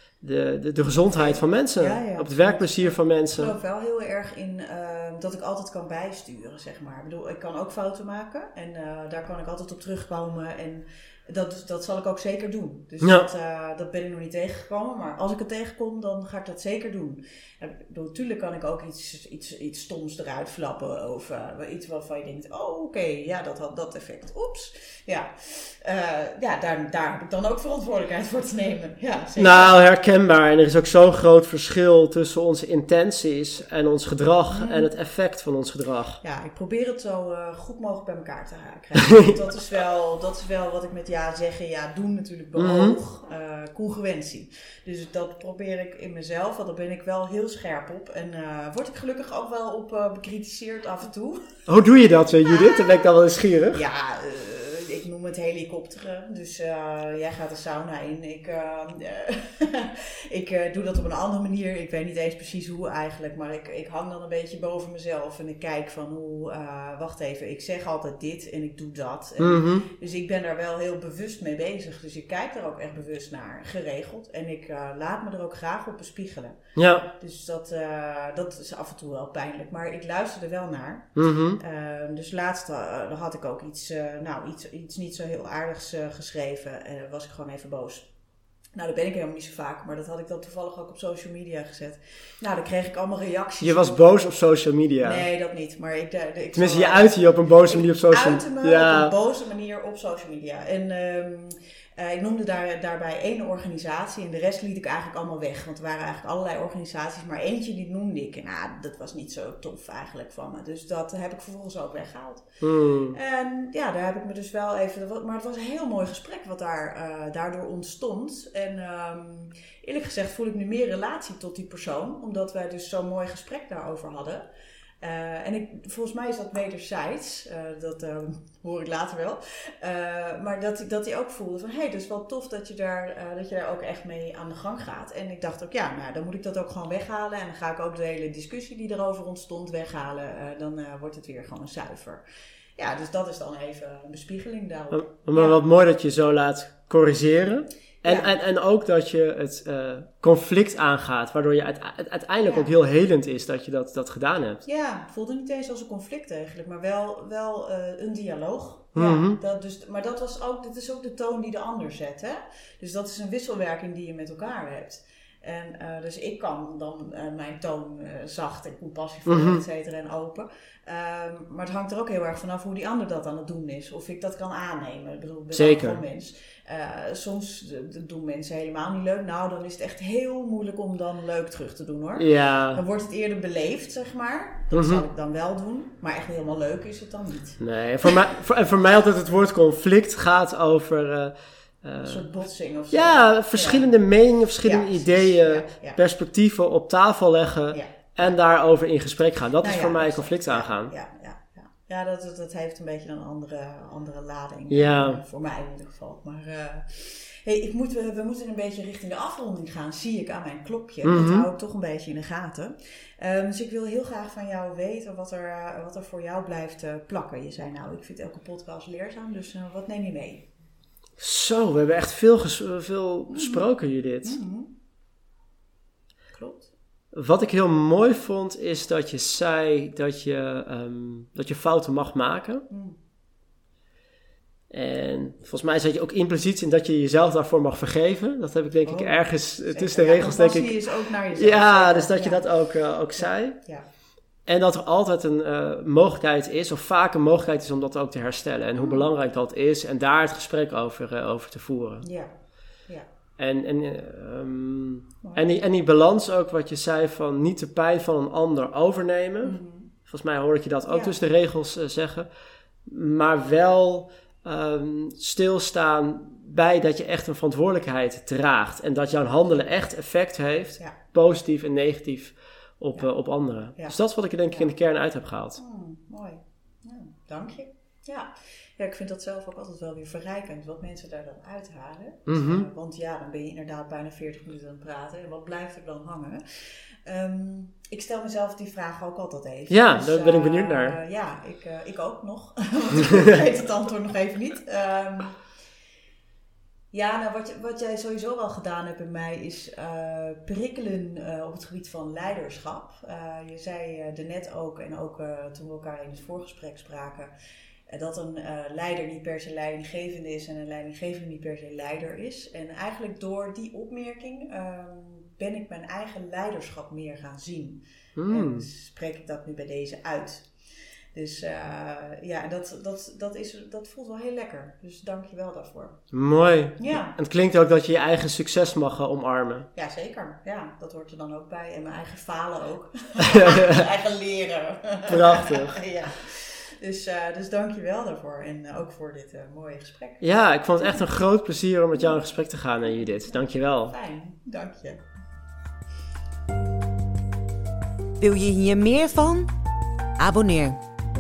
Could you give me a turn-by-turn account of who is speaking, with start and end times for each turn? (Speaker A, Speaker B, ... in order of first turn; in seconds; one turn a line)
Speaker A: 0.2-3.5
Speaker B: 1.1-29.8
Speaker A: 13.0-13.3
Speaker A: 29.4-36.2
Speaker B: 34.5-34.9
Speaker B: 36.2-51.6
Speaker A: 42.6-43.0
Speaker A: 51.7-53.8
Speaker B: 52.5-53.1
Speaker B: 53.7-76.6
Speaker A: 69.4-69.9
Speaker A: 76.8-77.1
Speaker B: 77.1-88.1
Speaker A: 81.2-81.6
Speaker B: 88.8-94.4
Speaker A: 93.6-95.2
Speaker B: 95.0-124.5
Speaker A: 96.5-99.1
Speaker A: 112.6-113.2
Speaker B: 125.0-142.2
Speaker B: 142.8-145.6
Speaker A: 144.9-154.6
Speaker B: 148.1-148.3
Speaker B: 152.4-152.8
Speaker B: 154.7-188.3
Speaker A: 158.9-159.4
Speaker A: 169.2-169.6
Speaker A: 175.5-176.0
Speaker A: 182.2-182.8
Speaker A: 184.7-185.0
Speaker A: 187.6-192.3
Speaker B: 192.0-193.9
Speaker A: 192.9-200.9
Speaker B: 194.6-196.0
Speaker B: 197.7-198.3
Speaker B: 199.6-220.5
Speaker A: 204.7-205.2
Speaker A: 211.0-211.5
Speaker A: 221.2-224.4
Speaker B: 223.3-223.7
Speaker B: 224.2-224.7
Speaker B: 226.3-226.7
Speaker A: 227.1-232.7
Speaker B: 232.7-233.0
Speaker A: 234.7-243.6
Speaker B: 238.8-242.4
Speaker B: 243.2-243.8
Speaker A: 244.5-252.1
Speaker B: 248.8-249.1
Speaker B: 252.0-252.3
Speaker A: 253.4-262.3
Speaker B: 259.4-259.9
Speaker B: 260.9-261.2
Speaker A: 262.9-275.6
Speaker B: 273.8-274.7
Speaker B: 275.6-286.4
Speaker A: 282.3-282.7
Speaker B: 287.1-295.4
Speaker A: 289.7-291.0
Speaker A: 293.0-293.3
Speaker B: 296.9-307.3
Speaker B: 307.9-326.1
Speaker A: 318.2-318.7
Speaker A: 326.1-329.7
Speaker B: 326.8-327.1
Speaker B: 329.8-341.1
Speaker A: 333.3-333.8
Speaker A: 335.1-335.8
Speaker A: 340.2-343.9
Speaker B: 343.2-345.0
Speaker C: 348.2-349.5
Speaker C: 350.2-350.8